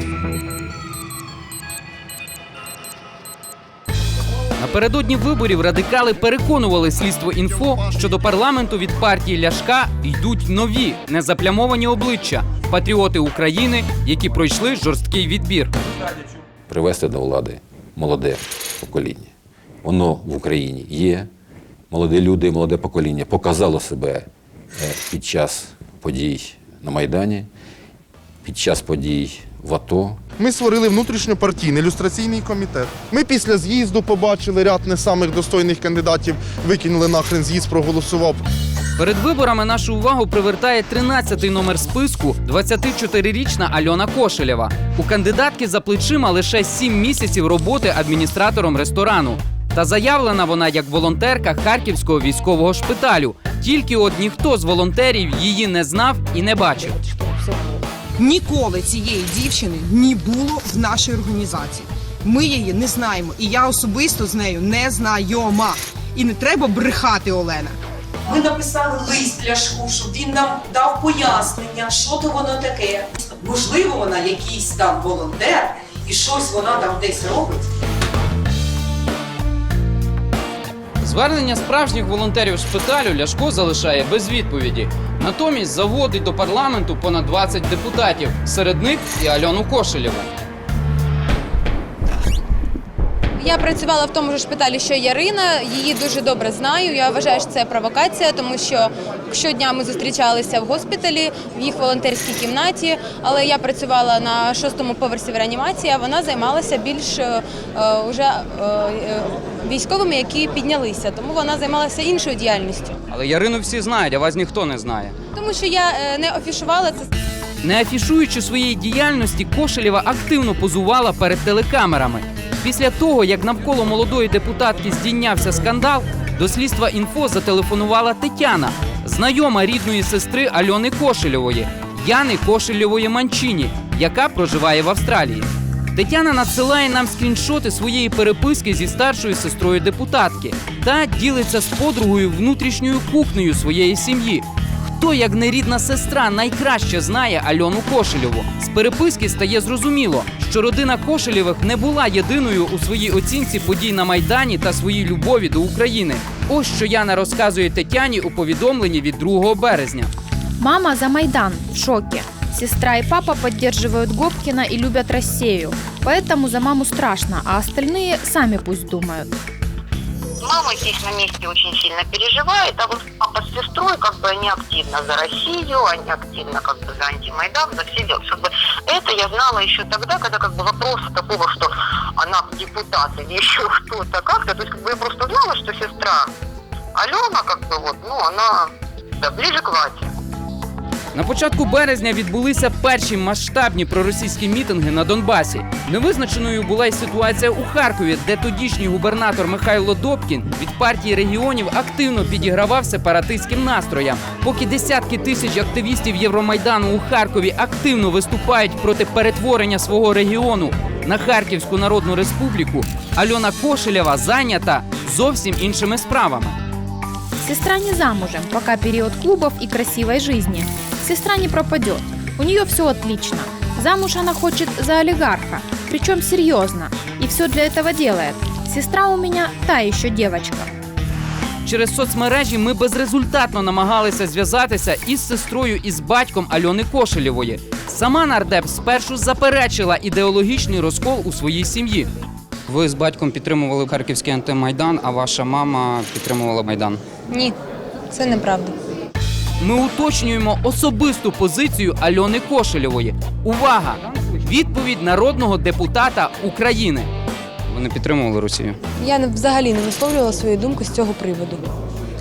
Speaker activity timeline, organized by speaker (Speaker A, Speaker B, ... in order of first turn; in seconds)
Speaker A: 4.6-15.7, 39.0-57.0, 81.0-90.3, 113.1-115.1, 117.6-160.1, 191.1-216.6, 231.6-242.1, 242.7-245.7, 249.6-257.1
Speaker B: 16.7-19.3, 19.8-21.3, 21.9-27.5, 28.4-30.2
Speaker C: 30.4-38.5
Speaker D: 58.2-67.8
Speaker E: 68.2-77.6
Speaker F: 93.4-112.9, 115.3-117.0, 247.3-247.6, 248.1-248.7, 259.0-261.7
Speaker G: 160.6-169.3, 217.4-230.7
Speaker H: 170.4-186.3, 186.9-188.7, 189.2-190.1